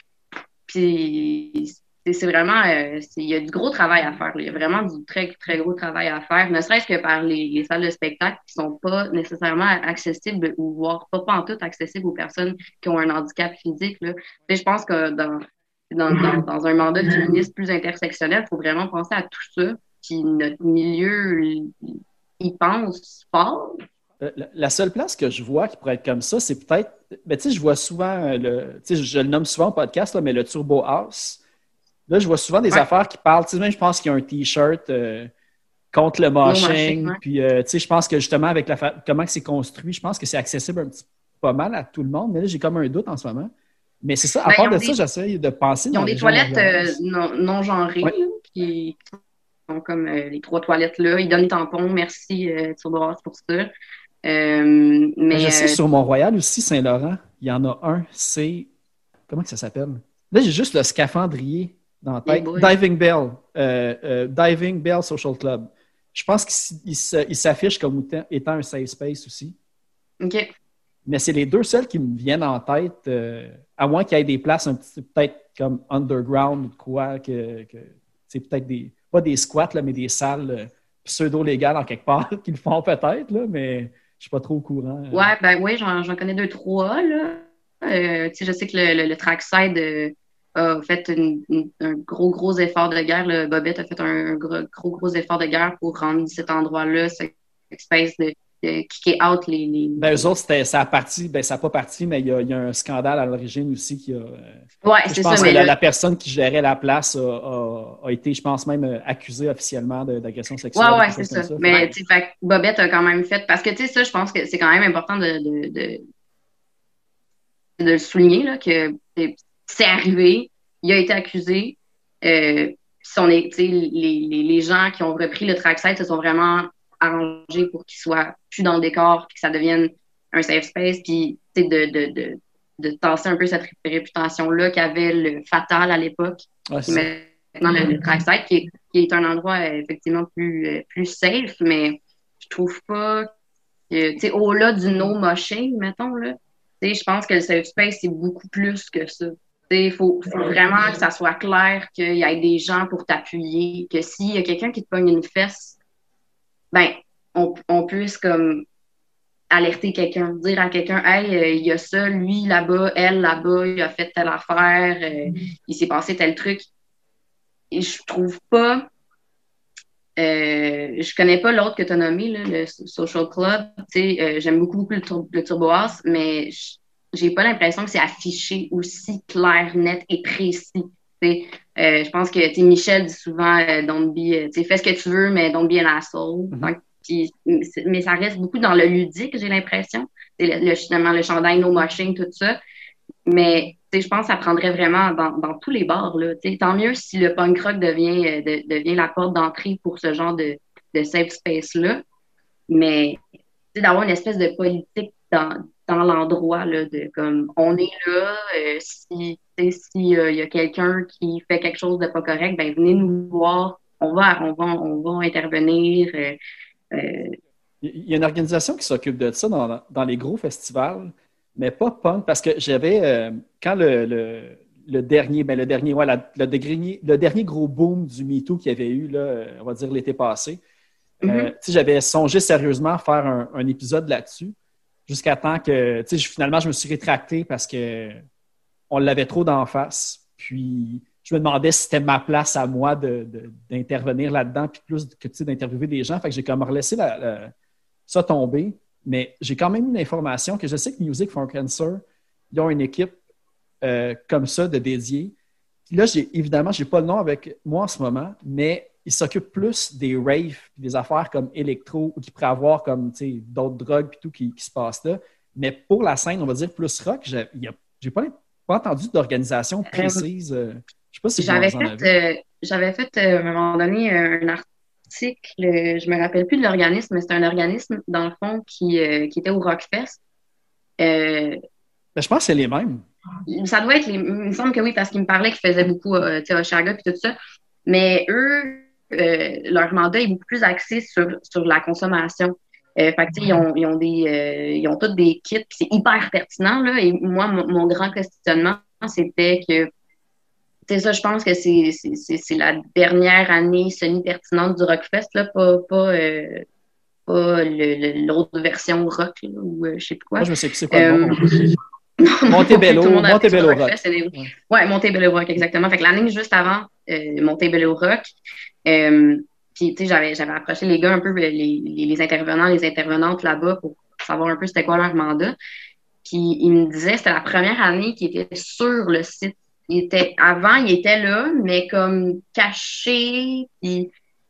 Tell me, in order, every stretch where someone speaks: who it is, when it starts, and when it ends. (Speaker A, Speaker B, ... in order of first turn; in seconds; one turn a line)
Speaker A: 0.7-23.8
Speaker B: 24.2-31.4
Speaker B: 32.1-35.3
Speaker B: 35.9-43.5
Speaker A: 36.5-37.2
Speaker B: 44.0-47.0
Speaker A: 44.5-45.0
Speaker A: 45.9-49.0
Speaker A: 49.7-53.7
Speaker A: 54.2-55.8
Speaker B: 55.3-58.7
Speaker B: 59.3-69.6
Speaker A: 62.3-62.7
Speaker A: 70.2-70.5
Speaker B: 71.1-85.3
Speaker A: 85.1-100.3
Speaker B: 100.0-111.9
Speaker A: 104.8-105.7
Speaker A: 110.8-116.0
Speaker A: 117.8-143.3
Speaker B: 136.7-137.1
Speaker A: 143.9-155.8
Speaker A: 156.7-158.7
Speaker A: 159.5-166.7
Speaker A: 167.7-168.9
Speaker A: 170.2-192.6
Speaker A: 193.3-202.0
Speaker A: 202.7-203.2
Speaker A: 203.8-216.4
Speaker A: 216.9-217.4
Speaker B: 217.8-230.6
Speaker B: 231.2-234.6
Speaker A: 231.2-231.5
Speaker B: 235.1-238.2
Speaker B: 238.9-247.5
Speaker B: 248.1-253.2
Speaker B: 253.8-255.3
Speaker B: 255.9-272.1
Speaker A: 269.9-270.2
Speaker A: 271.4-280.2
Speaker A: 281.0-281.6
Speaker B: 282.2-283.1
Speaker A: 283.5-299.9
Speaker A: 300.9-306.6
Speaker A: 307.3-311.6
Speaker B: 310.4-311.8
Speaker A: 312.2-318.3
Speaker B: 312.5-314.5
Speaker A: 318.9-325.6
Speaker A: 326.2-334.1